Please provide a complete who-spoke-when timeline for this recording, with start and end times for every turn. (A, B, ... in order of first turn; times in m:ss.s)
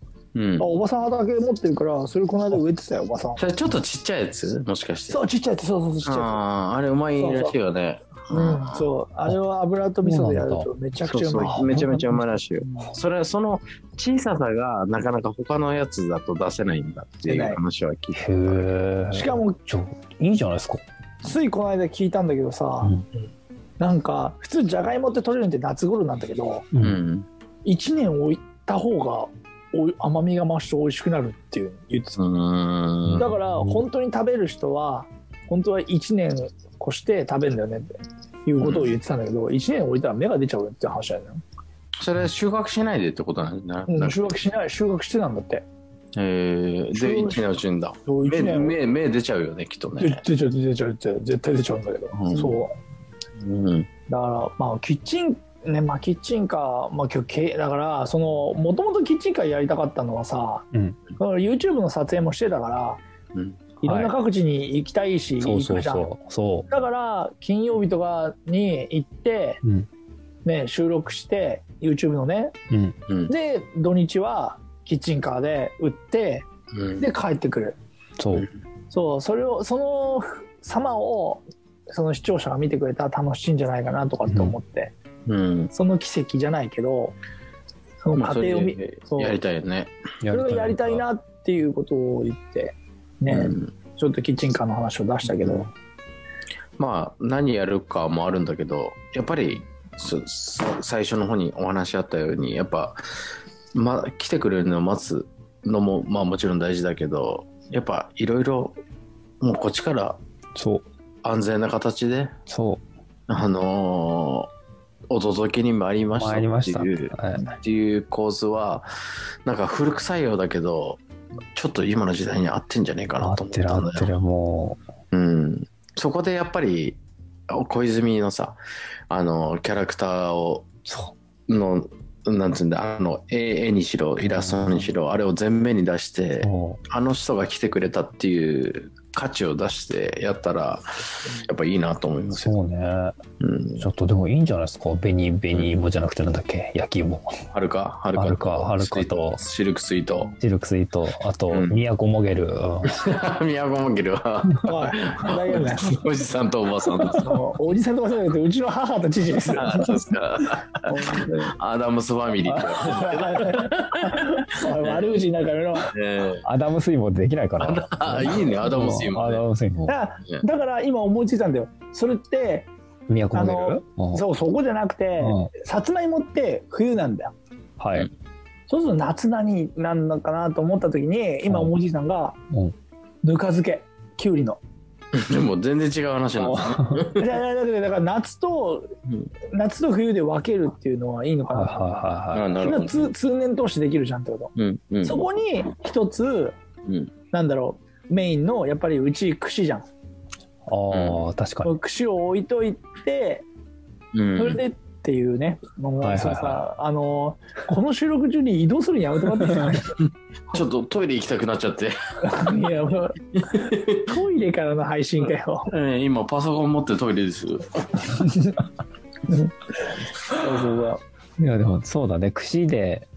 0:00.3-0:00.7 A
0:00.6-0:03.5 B
0:03.4-0:05.2 A
0:05.1-0:06.4 B
0:06.0-0:08.9 A
0:07.2-0:07.6 B
0:08.3-0:11.8 B
0:10.0-0:10.7 C
0:11.0-0:18.7 A
0:11.5-0:12.2 C
0:12.6-0:12.9 B
0:17.3-0:17.6 B
0:18.1-0:20.8 C
0:19.1-0:19.6 B
0:21.2-0:22.9 B
0:23.8-0:26.7 B
0:26.7-0:27.0 C
0:26.8-0:27.3 A
0:27.6-0:32.2 B
0:32.2-0:33.3 A
0:33.0-0:33.8 C
0:33.2-0:41.4 B
0:38.6-0:38.9 A
0:42.0-0:44.4 A
0:43.9-0:45.6 B
0:46.1-0:50.2 A
0:46.9-0:47.4 B
0:48.0-0:48.8 B
0:50.0-0:52.7 B
0:52.1-0:52.6 A
0:53.4-0:53.9 A
0:54.1-1:00.6 B
1:01.2-1:03.0 B
1:03.8-1:06.1 B
1:03.8-1:04.1 C
1:05.4-1:06.7 C
1:06.7-1:09.6 B
1:10.4-1:12.5 B
1:13.3-1:16.5 B
1:16.7-1:17.0 A
1:17.0-1:17.8 B
1:18.2-1:18.5 C
1:18.9-1:24.9 B
1:24.3-1:24.5 C
1:25.3-1:25.7 A
1:25.7-1:27.2 B
1:28.0-1:29.4 B
1:28.1-1:29.9 A
1:30.2-1:31.0 C
1:30.3-1:35.7 B
1:33.3-1:33.7 A
1:36.8-1:43.0 A
1:43.7-1:48.8 A
1:49.4-1:50.2 A
1:50.6-1:50.8 C
1:51.2-1:52.3 A
1:52.5-1:52.8 C
1:53.3-1:54.5 A
1:55.1-1:58.9 A
1:56.1-1:57.6 C
1:59.4-2:01.0 A
2:01.5-2:04.1 A
2:03.2-2:04.8 C
2:05.1-2:08.6 A
2:09.1-2:10.7 A
2:10.8-2:11.1 C
2:11.5-2:22.5 A
2:14.2-2:14.9 C
2:16.4-2:16.8 C
2:22.4-2:23.2 C
2:23.4-2:23.9 A
2:23.8-2:27.3 C
2:27.5-2:30.3 A
2:28.1-2:29.4 C
2:30.4-2:33.0 C
2:31.5-2:31.8 A
2:32.9-2:37.4 A
2:34.6-2:36.0 B
2:37.2-2:39.9 B
2:39.5-2:40.8 A
2:40.8-2:41.5 B
2:41.6-2:45.2 A
2:42.7-2:45.9 B
2:45.9-2:46.4 A
2:46.4-2:50.0 C
2:47.6-2:49.4 A
2:49.8-2:52.7 B
2:53.1-2:54.2 C
2:53.3-2:57.3 B
2:55.2-2:55.5 C
2:57.8-2:58.1 C
2:58.7-3:02.4 B
3:01.4-3:01.7 C
3:03.2-3:04.6 B
3:05.2-3:07.4 A
3:07.1-3:08.9 B
3:09.5-3:12.0 B
3:11.5-3:12.4 C
3:12.3-3:13.1 A
3:12.6-3:14.5 B
3:14.6-3:15.2 A
3:15.0-3:16.6 B
3:17.3-3:19.8 B
3:20.7-3:21.7 C
3:20.9-3:21.2 A
3:21.6-3:23.4 B
3:24.1-3:24.6 A
3:24.4-3:29.9 B
3:26.0-3:26.6 C
3:30.5-3:32.5 A
3:32.2-3:33.2 B
3:33.5-3:34.0 A
3:34.0-3:35.7 B
3:35.7-3:38.0 A
3:38.2-3:38.5 B
3:40.3-3:41.0 B
3:41.4-3:43.1 C